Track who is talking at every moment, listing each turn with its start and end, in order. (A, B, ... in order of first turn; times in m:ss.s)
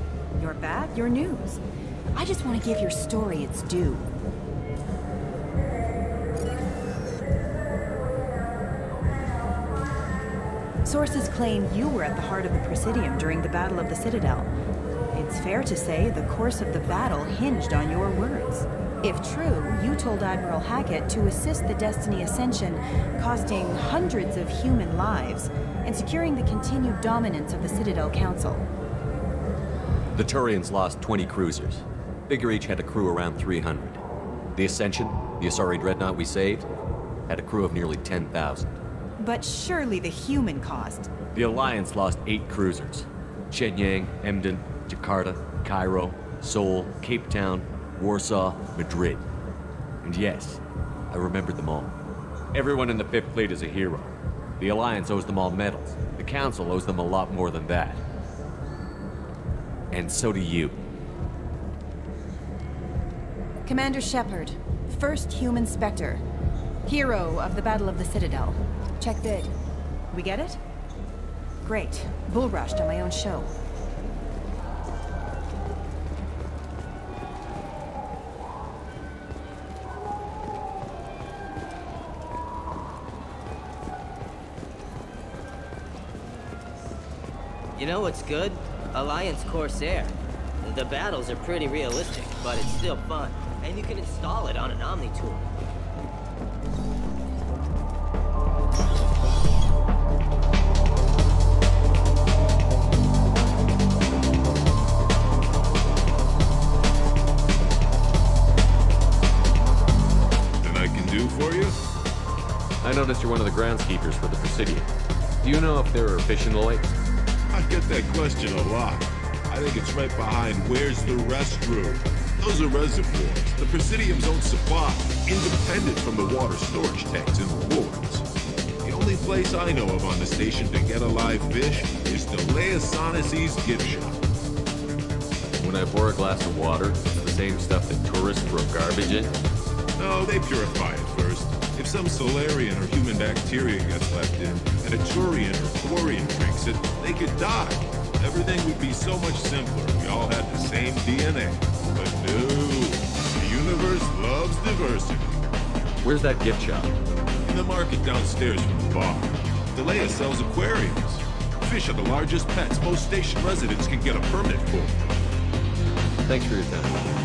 0:00.4-0:01.6 A
0:02.1-0:04.1 A
0:10.8-0:14.5 A
0:15.1-0:28.7 A
0:30.1-0:34.0 B
0:34.5-0:36.7 B
0:37.3-0:38.8 B
0:39.2-0:41.1 A
0:41.3-0:49.2 B
0:50.0-0:52.0 B
0:52.5-0:58.0 B
0:59.9-1:00.8 B
1:03.6-1:06.2 A
1:06.9-1:09.5 A
1:10.1-1:10.6 A
1:11.6-1:13.5 A
1:27.8-1:35.5 C
1:52.8-1:54.9 B
1:55.4-1:56.8 B
1:57.5-2:08.2 D
2:08.8-2:14.1 D
2:15.6-2:19.3 B
2:20.0-2:35.3 D
2:36.0-2:37.0 B
2:37.5-2:39.2 D
2:39.8-2:45.0 D
2:46.3-2:47.0 B